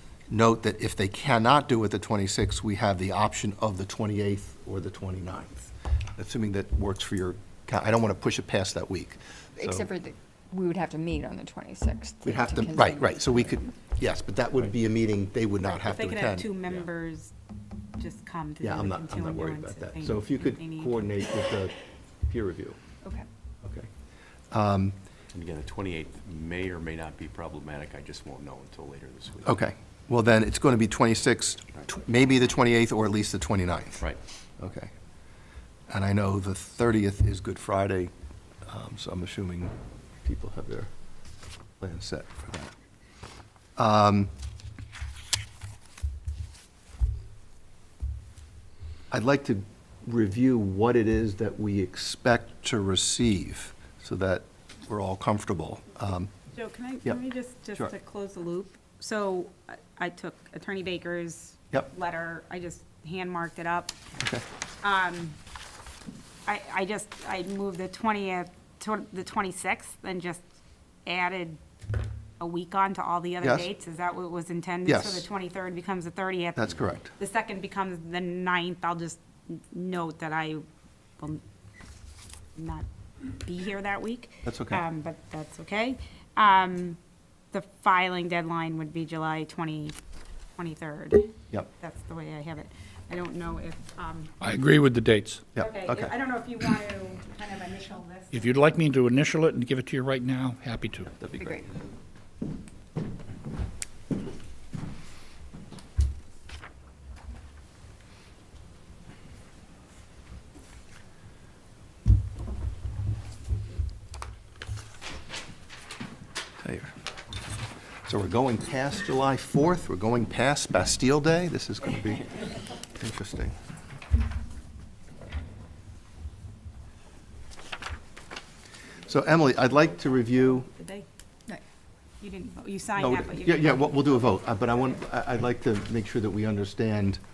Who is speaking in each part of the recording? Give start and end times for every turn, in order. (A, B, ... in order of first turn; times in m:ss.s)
0:00.3-0:09.9 A
0:09.6-0:13.2 B
0:12.2-0:16.5 A
0:15.8-0:17.3 C
0:18.0-0:21.0 C
0:18.6-0:22.8 A
0:23.6-0:23.9 A
0:24.5-0:25.0 A
0:25.3-0:29.6 D
0:29.4-0:34.0 A
0:34.6-0:34.9 A
0:35.9-0:38.1 A
0:38.7-0:40.9 A
0:41.8-0:42.7 A
0:43.8-0:44.3 A
0:49.1-0:56.3 A
0:56.5-1:04.0 C
1:04.8-1:05.4 C
1:06.5-1:10.4 C
1:11.1-1:11.6 C
1:12.4-1:20.6 C
1:13.4-1:13.7 A
1:14.8-1:15.3 A
1:16.6-1:17.1 A
1:22.6-1:27.0 C
1:24.4-1:24.8 A
1:27.5-1:30.0 C
1:30.6-1:34.3 C
1:34.4-1:35.4 E
1:35.5-1:36.1 A
1:35.6-1:38.5 C
1:38.3-1:41.1 E
1:41.1-1:41.7 A
1:56.6-1:56.9 A
1:58.1-2:03.6 A
2:09.1-2:10.7 A
2:10.7-2:11.0 C
2:12.2-2:14.1 C
2:13.0-2:17.2 A